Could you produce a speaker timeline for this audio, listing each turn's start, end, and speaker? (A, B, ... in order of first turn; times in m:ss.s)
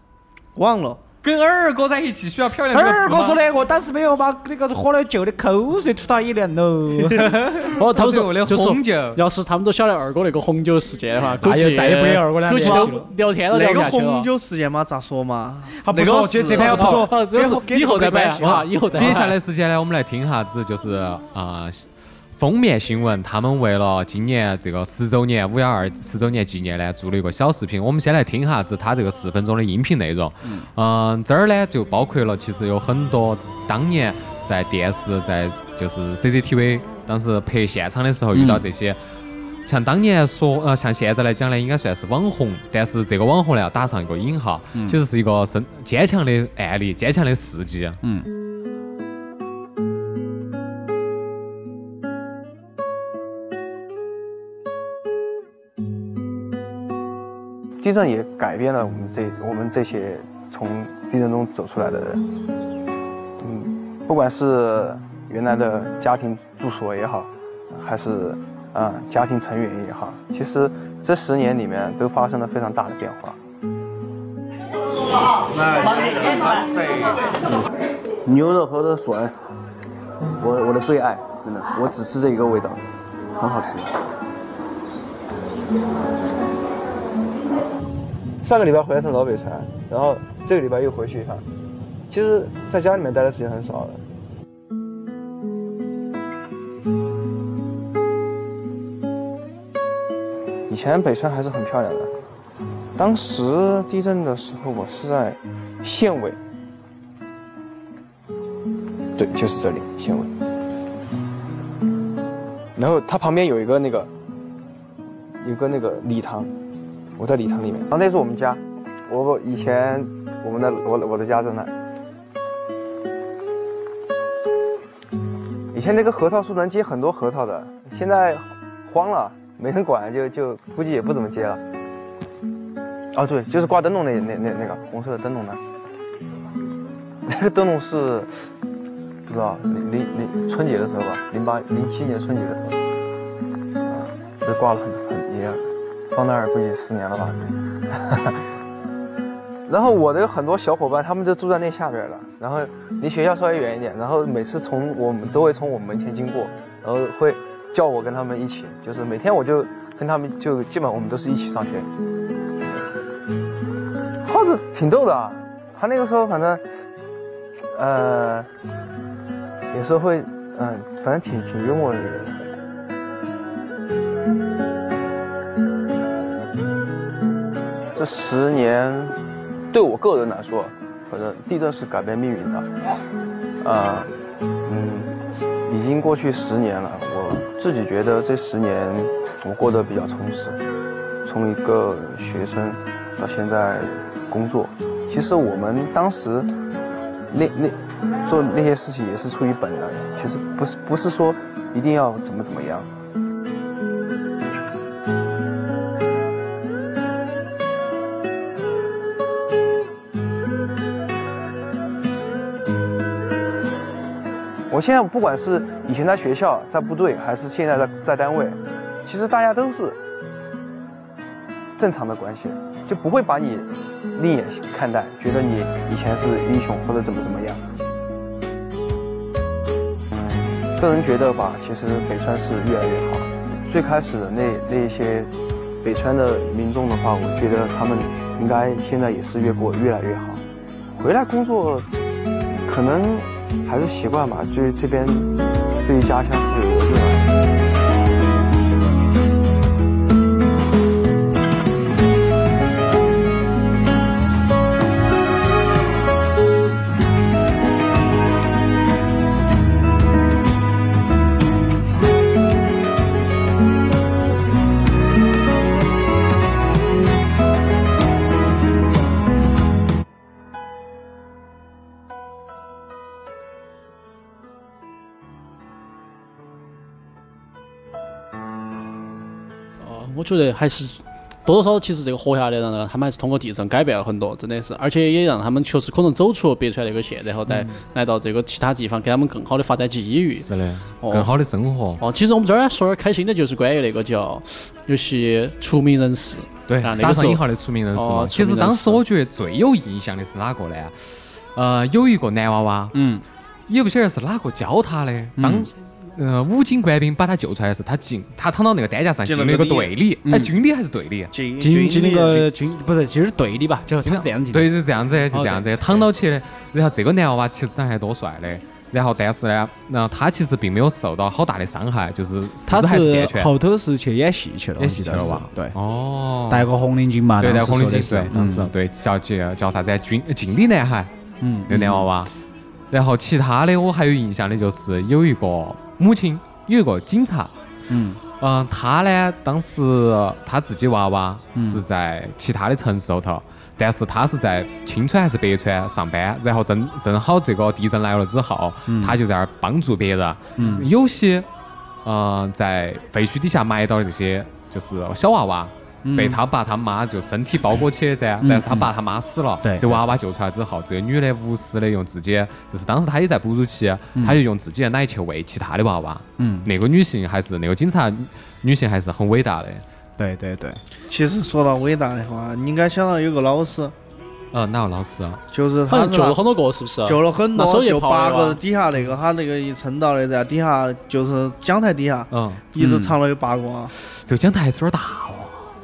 0:00.6-0:01.0 A
0:01.2-0:03.4 B
0:02.7-0:08.0 C
0:07.0-0:07.3 A
0:07.7-0:14.3 D
0:07.9-0:09.2 B
0:11.4-0:13.1 C
0:12.6-0:12.9 A
0:13.5-0:17.0 A
0:15.7-0:19.3 C
0:16.6-0:19.4 D
0:18.9-0:39.0 B
0:38.3-0:38.7 C
0:39.6-0:48.0 B
0:48.0-0:48.3 C
0:57.8-1:02.2 E
1:03.4-1:13.4 E
1:15.5-1:17.2 A
1:18.2-1:19.4 E
1:20.4-1:22.8 E
1:23.3-1:24.0 E
1:28.4-1:31.4 E
1:32.1-1:34.0 E
1:40.7-1:42.1 E
1:43.0-1:46.4 E
1:49.2-1:50.3 E
1:52.8-1:54.1 E
1:55.4-1:56.5 E
1:57.2-2:01.7 E
2:05.7-2:11.6 E
2:13.1-2:15.6 E
2:17.3-2:18.3 E
2:19.2-2:22.8 E
2:23.9-2:28.4 E
2:29.7-2:41.9 E
2:44.2-2:46.6 E
2:47.8-2:48.5 E
2:49.7-2:52.3 E
2:57.9-2:59.2 E
2:59.7-3:02.7 E
3:03.6-3:04.1 E
3:04.6-3:05.1 E
3:05.6-3:10.6 E
3:11.2-3:16.5 E
3:17.3-3:22.9 E
3:34.7-3:40.0 E
3:41.8-3:47.6 E
3:50.1-4:00.4 E
4:01.0-4:01.9 E
4:02.6-4:07.4 E
4:39.8-4:50.5 D
4:47.5-4:47.8 B
4:50.4-4:52.0 B
4:51.0-4:51.3 D
4:52.0-4:59.0 D
4:56.7-5:03.0 B
5:02.9-5:03.2 C
5:03.7-5:11.3 B
5:05.4-5:05.7 C
5:09.2-5:09.9 A
5:10.2-5:10.6 C
5:11.3-5:12.5 A
5:11.6-5:14.8 C
5:14.0-5:23.5 B
5:15.3-5:16.0 C
5:22.6-5:25.8 C
5:24.8-5:26.7 B
5:26.5-5:28.7 C
5:27.4-5:31.1 B
5:31.4-5:32.1 C
5:31.7-5:32.3 B
5:32.9-5:37.5 B
5:37.9-5:38.2 C
5:38.4-5:51.5 B
5:41.5-5:41.8 C
5:48.9-5:49.2 C
5:50.6-5:50.9 C
5:52.0-6:09.8 B
5:56.0-5:56.4 C
5:58.4-5:58.9 C
5:59.6-6:00.1 C
6:06.4-6:06.7 C
6:10.2-6:10.8 C
6:11.1-6:13.9 A
6:14.5-6:15.4 B
6:15.5-6:16.4 A
6:15.9-6:18.6 D
6:17.0-6:23.9 A
6:22.3-6:22.7 B
6:22.8-6:23.2 C
6:23.9-6:25.6 B